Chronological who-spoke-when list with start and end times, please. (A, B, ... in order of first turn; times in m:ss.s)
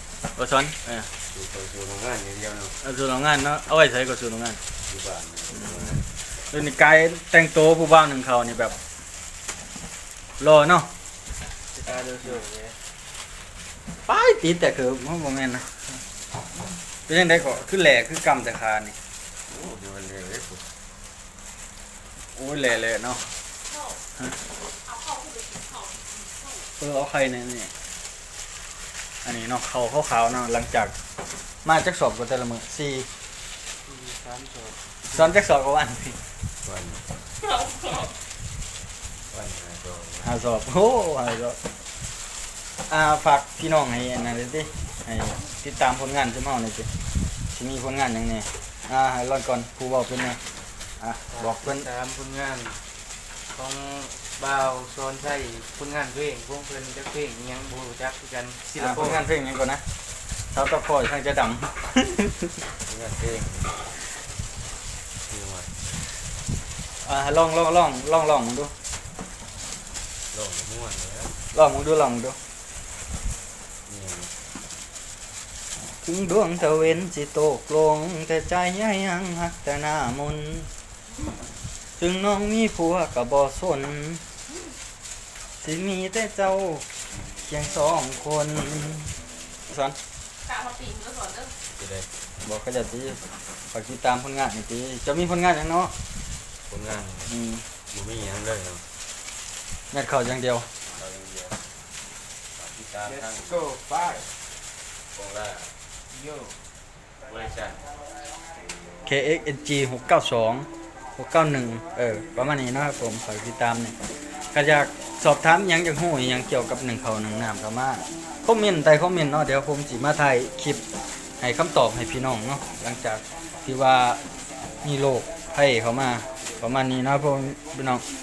0:00.4-0:01.1 A
0:01.3-0:02.8 B
0:02.8-0:04.6 A
0:04.8-0:06.1 B
0:06.4-0:08.8 A
0:10.4-0:10.9 A
0:11.7-0:12.8 C
0:14.1-0:15.8 A
0:17.1-0:19.0 A
0:19.5-0:20.7 B
0:22.3-0:23.3 A
0:24.9-0:26.0 D
0:26.8-0:27.7 A
0:29.2-0:30.9 A
0:31.6-0:33.1 A
0:33.8-0:35.3 C
0:35.1-0:36.2 A
0:36.6-0:37.0 B
0:39.3-0:40.3 B
0:40.2-0:41.6 A
0:42.9-0:46.9 A
0:47.5-0:50.4 A
0:51.0-0:51.9 A
0:51.3-0:52.8 C
0:53.5-0:59.2 C
0:58.8-0:59.8 A
1:00.5-1:02.5 A
1:02.8-1:04.0 B
1:05.2-1:05.8 B
1:07.0-1:08.7 A
1:10.3-1:11.4 B
1:11.5-1:12.4 A
1:13.9-1:14.3 B
1:16.0-1:20.7 A
1:22.0-1:24.2 A
1:25.6-1:26.8 A
1:27.4-1:29.1 A
1:29.7-1:30.0 A
1:30.4-1:31.5 D
1:31.7-1:32.1 B
1:32.4-1:33.2 A
1:33.7-1:35.9 A
1:36.7-1:37.3 B
1:37.3-1:37.6 A
1:37.9-1:38.8 B
1:39.9-1:40.7 A
1:40.9-1:41.6 B
1:42.6-1:43.6 B
1:43.1-1:44.2 C
1:45.1-1:45.7 B
1:46.1-1:46.5 C
1:47.2-1:47.9 B
1:49.0-1:53.9 A
1:54.5-2:00.8 A
2:01.4-2:04.2 A
2:04.8-2:08.0 A